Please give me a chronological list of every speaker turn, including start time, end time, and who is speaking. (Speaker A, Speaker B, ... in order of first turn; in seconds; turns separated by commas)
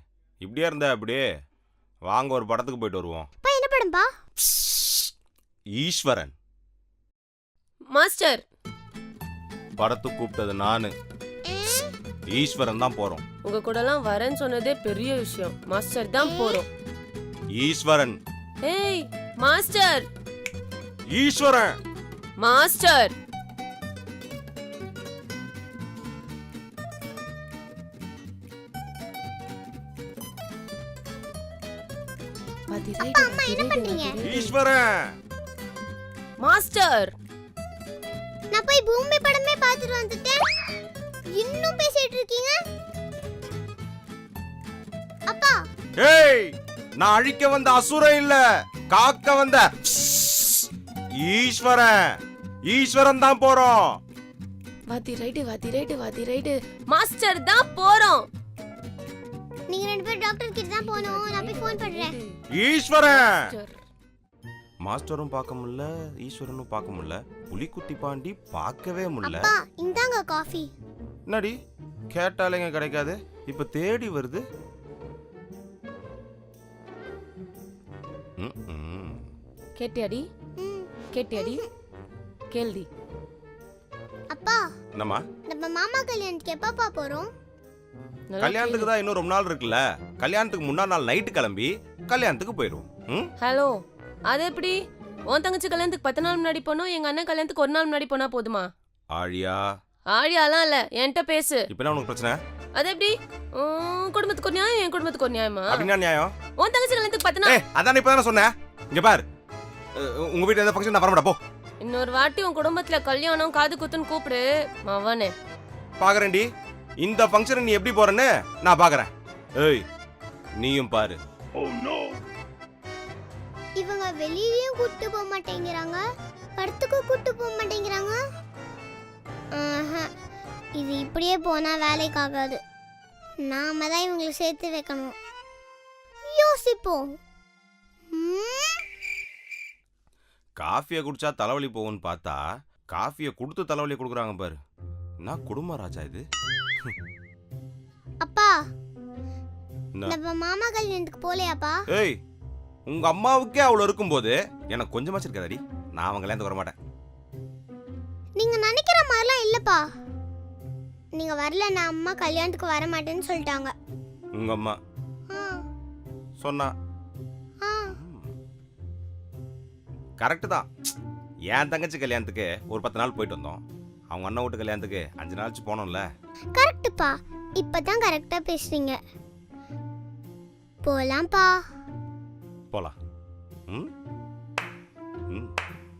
Speaker A: 0.4-1.2, Speaker A: 2.1-3.3, Speaker B: 3.4-4.1, Speaker A: 4.5-5.0, Speaker A: 5.8-6.3, Speaker C: 7.9-8.4, Speaker A: 9.8-10.9, Speaker B: 11.4-11.9, Speaker A: 12.3-13.2, Speaker C: 13.4-16.7, Speaker B: 16.2-16.6, Speaker A: 17.5-18.2, Speaker C: 18.6-20.1, Speaker A: 21.1-21.7, Speaker C: 22.4-23.1, Speaker C: 32.7-34.5, Speaker B: 33.0-34.2, Speaker A: 34.2-35.0, Speaker C: 36.4-37.1, Speaker B: 38.5-40.4, Speaker B: 41.4-42.6, Speaker B: 45.3-45.6, Speaker A: 46.0-50.6, Speaker A: 51.2-52.0, Speaker A: 52.7-54.0, Speaker C: 54.9-58.2, Speaker B: 59.7-62.2, Speaker C: 60.8-62.3, Speaker A: 62.5-63.5, Speaker C: 63.1-63.8, Speaker A: 64.8-69.5, Speaker B: 69.2-70.7, Speaker A: 71.3-71.6, Speaker A: 72.1-74.4, Speaker A: 78.4-79.2, Speaker C: 79.8-80.3, Speaker B: 80.6-81.7, Speaker C: 81.1-81.6, Speaker C: 82.5-82.9, Speaker B: 84.3-84.6, Speaker A: 85.0-85.2, Speaker B: 85.5-87.3, Speaker C: 88.3-88.9, Speaker A: 88.4-93.3, Speaker C: 93.4-93.8, Speaker C: 94.3-94.8, Speaker C: 95.3-98.7, Speaker A: 99.1-99.6, Speaker C: 100.1-101.6, Speaker A: 101.7-102.4, Speaker C: 102.8-105.9, Speaker A: 105.7-106.3, Speaker C: 106.6-107.5, Speaker A: 107.4-109.2, Speaker A: 110.0-111.4, Speaker C: 111.8-115.3, Speaker A: 116.0-116.5, Speaker A: 117.0-119.8, Speaker A: 120.6-121.2, Speaker B: 123.8-126.0, Speaker B: 126.6-128.2, Speaker B: 129.6-130.1, Speaker B: 130.8-132.6, Speaker B: 133.4-135.1, Speaker B: 136.3-137.1, Speaker B: 138.1-138.8, Speaker A: 140.6-142.4, Speaker A: 142.9-144.6, Speaker A: 145.2-146.2, Speaker B: 148.2-148.5, Speaker B: 150.1-151.8, Speaker A: 151.9-152.2, Speaker A: 152.9-156.7, Speaker B: 158.4-159.8, Speaker B: 161.2-163.7, Speaker A: 164.3-164.8, Speaker B: 165.3-165.6, Speaker A: 166.4-166.7, Speaker B: 167.6-167.9, Speaker A: 167.9-168.3, Speaker A: 170.2-170.7, Speaker A: 171.5-176.1, Speaker B: 176.6-179.0, Speaker B: 180.8-181.6, Speaker A: 182.7-182.9